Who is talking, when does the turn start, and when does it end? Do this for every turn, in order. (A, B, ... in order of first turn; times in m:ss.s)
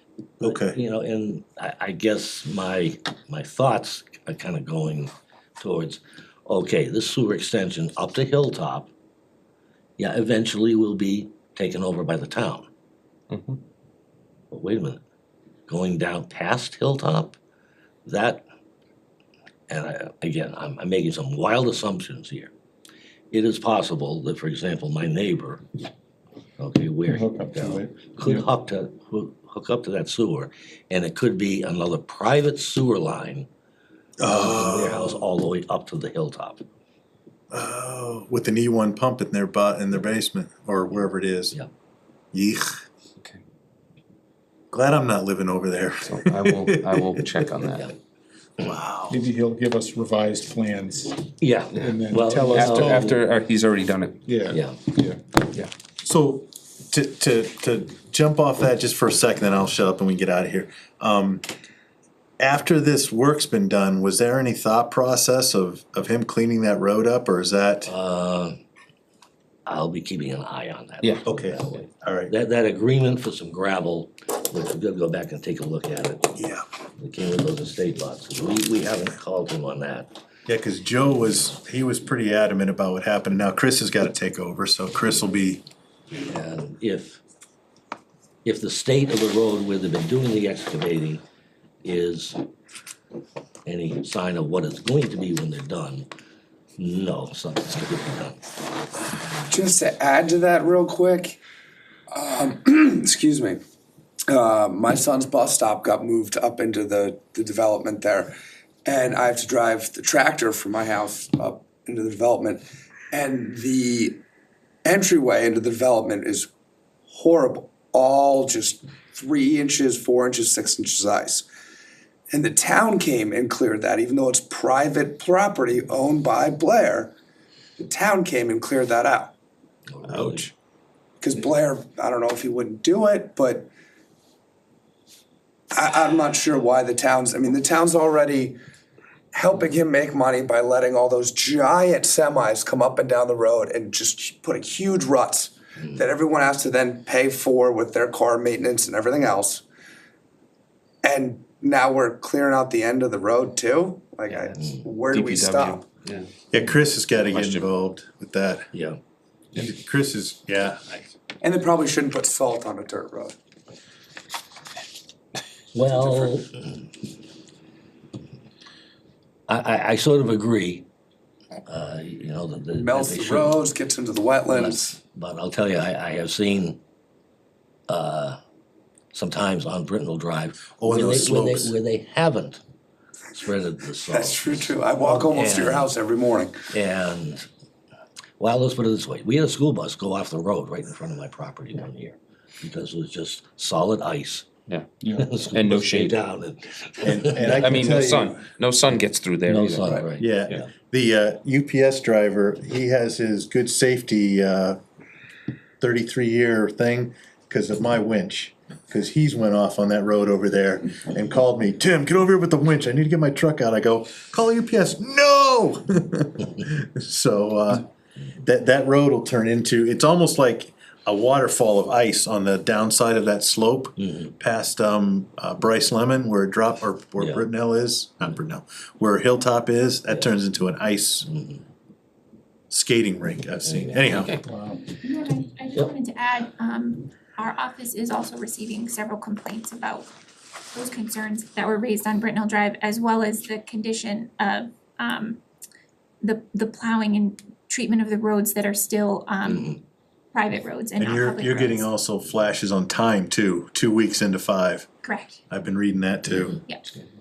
0:00.4-0:08.9 A
0:00.4-0:00.8 B
0:10.0-0:12.7 A
0:13.3-0:13.6 C
0:14.5-0:15.0 A
0:15.7-0:17.4 A
0:18.0-0:18.4 A
0:19.7-0:22.5 A
0:23.3-0:25.7 A
0:26.6-0:33.5 A
0:27.1-0:28.4 D
0:34.2-0:35.2 B
0:34.2-0:36.6 A
0:37.5-0:41.6 B
0:42.3-0:42.7 B
0:44.7-0:47.2 B
0:46.0-0:47.9 C
0:47.6-0:47.9 A
0:48.6-0:49.2 B
0:49.1-0:51.2 D
0:51.4-0:53.2 A
0:51.8-0:53.2 D
0:52.5-0:54.2 C
0:54.2-0:55.2 D
0:54.5-0:54.8 A
0:56.0-1:01.4 B
1:02.4-1:07.9 B
1:07.9-1:08.6 A
1:09.7-1:16.3 A
1:11.3-1:12.3 B
1:16.4-1:16.6 B
1:17.0-1:20.1 A
1:20.5-1:25.6 B
1:26.3-1:27.2 A
1:28.4-1:31.2 A
1:31.8-1:32.4 A
1:33.7-1:36.1 A
1:36.8-1:38.4 A
1:39.5-1:41.4 E
1:42.1-1:43.6 E
1:44.3-1:48.3 E
1:48.8-1:54.2 E
1:54.8-1:56.5 E
1:57.1-2:01.5 E
2:02.3-2:07.1 E
2:07.8-2:09.4 E
2:09.9-2:10.5 A
2:10.1-2:10.5 B
2:11.2-2:13.7 E
2:15.7-2:18.6 E
2:19.3-2:29.6 E
2:31.0-2:35.8 E
2:34.6-2:34.8 A
2:35.1-2:36.3 C
2:36.5-2:38.7 B
2:37.3-2:37.7 C
2:38.7-2:39.0 A
2:39.6-2:41.0 B
2:41.4-2:43.4 E
2:45.7-2:46.8 A
2:49.5-2:50.9 A
2:51.7-2:53.6 A
2:52.8-2:55.0 E
2:54.5-2:56.8 A
2:57.9-2:58.4 A
2:59.1-3:02.6 A
3:00.8-3:01.8 B
3:03.3-3:05.9 A
3:04.1-3:06.6 E
3:06.7-3:07.5 A
3:08.4-3:14.5 A
3:15.0-3:15.3 D
3:15.1-3:17.9 A
3:15.5-3:16.2 C
3:17.0-3:18.4 B
3:17.5-3:19.9 C
3:19.5-3:20.7 A
3:20.2-3:24.8 B
3:25.8-3:37.9 B
3:38.4-3:51.3 B
3:44.0-3:44.3 A
3:47.2-3:47.5 A
3:51.3-3:51.6 A
3:52.7-3:54.4 B
3:53.6-3:54.4 A
3:54.4-3:54.8 D
3:54.9-4:00.1 F
4:00.7-4:05.4 F
4:06.2-4:09.8 F
4:09.4-4:09.8 A
4:10.3-4:11.9 F
4:11.0-4:14.9 B
4:15.0-4:15.4 F
4:15.5-4:16.6 B
4:16.3-4:16.6 A